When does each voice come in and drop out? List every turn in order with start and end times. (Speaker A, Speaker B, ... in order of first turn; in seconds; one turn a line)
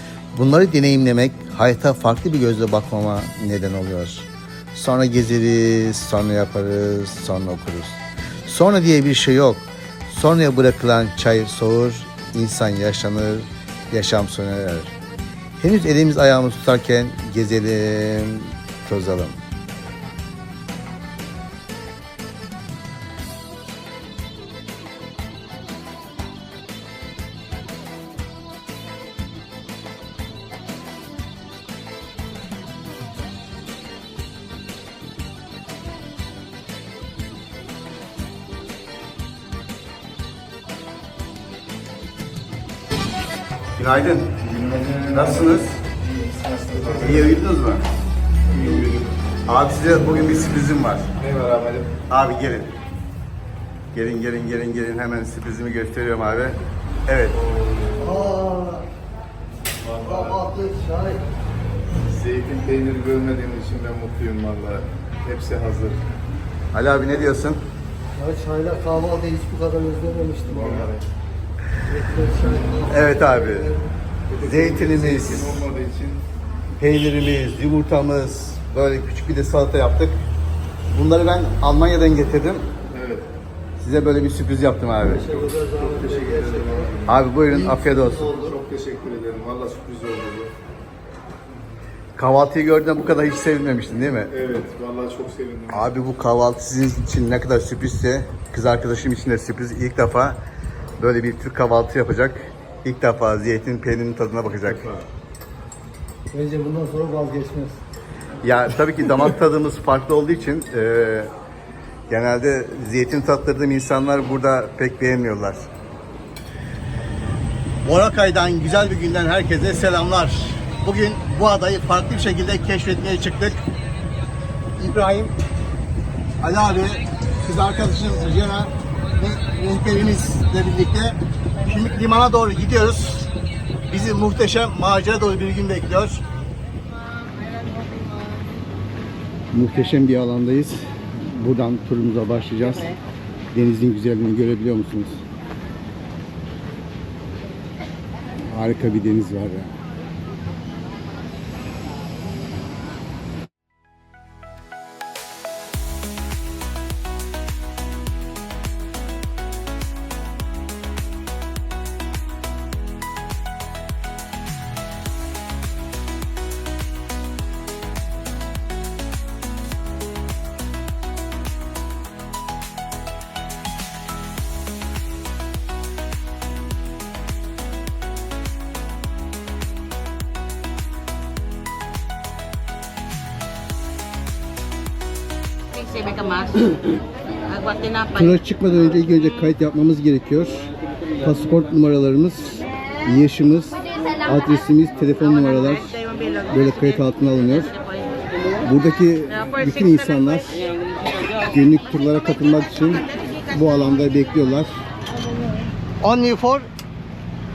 Speaker A: 0.3-14.9
Speaker A: 15.6-19.4
Speaker A: 43.8-44.4
Speaker B: 44.4-47.4
Speaker A: 45.0-45.7
Speaker A: 47.0-47.8
Speaker B: 48.5-49.1
Speaker A: 49.5-51.1
Speaker B: 51.2-51.9
Speaker A: 52.1-52.7
Speaker A: 53.9-57.4
Speaker B: 57.4-58.2
Speaker C: 58.0-58.9
Speaker B: 59.8-60.4
Speaker C: 60.0-61.2
Speaker B: 62.1-66.0
Speaker A: 66.7-67.6
Speaker C: 68.2-70.9
Speaker B: 70.5-71.0
Speaker C: 71.9-73.8
Speaker A: 72.9-73.7
Speaker B: 74.3-76.2
Speaker A: 74.4-75.6
Speaker A: 76.8-80.2
Speaker A: 80.9-82.7
Speaker B: 82.9-83.2
Speaker A: 83.8-85.3
Speaker C: 85.1-86.9
Speaker B: 85.3-87.2
Speaker A: 87.0-88.3
Speaker C: 87.6-88.5
Speaker B: 88.3-90.5
Speaker A: 92.2-94.3
Speaker B: 94.3-95.9
Speaker A: 95.7-100.4
Speaker A: 101.0-104.9
Speaker C: 106.3-107.8
Speaker A: 108.4-111.3
Speaker A: 112.1-115.7
Speaker A: 117.8-123.6
Speaker A: 124.8-125.3
Speaker A: 126.4-133.3
Speaker A: 133.9-136.2
Speaker A: 139.5-143.0
Speaker A: 143.5-145.2
Speaker A: 148.4-149.7
Speaker A: 188.1-197.7
Speaker A: 198.6-200.6
Speaker A: 201.4-204.8
Speaker A: 206.0-206.7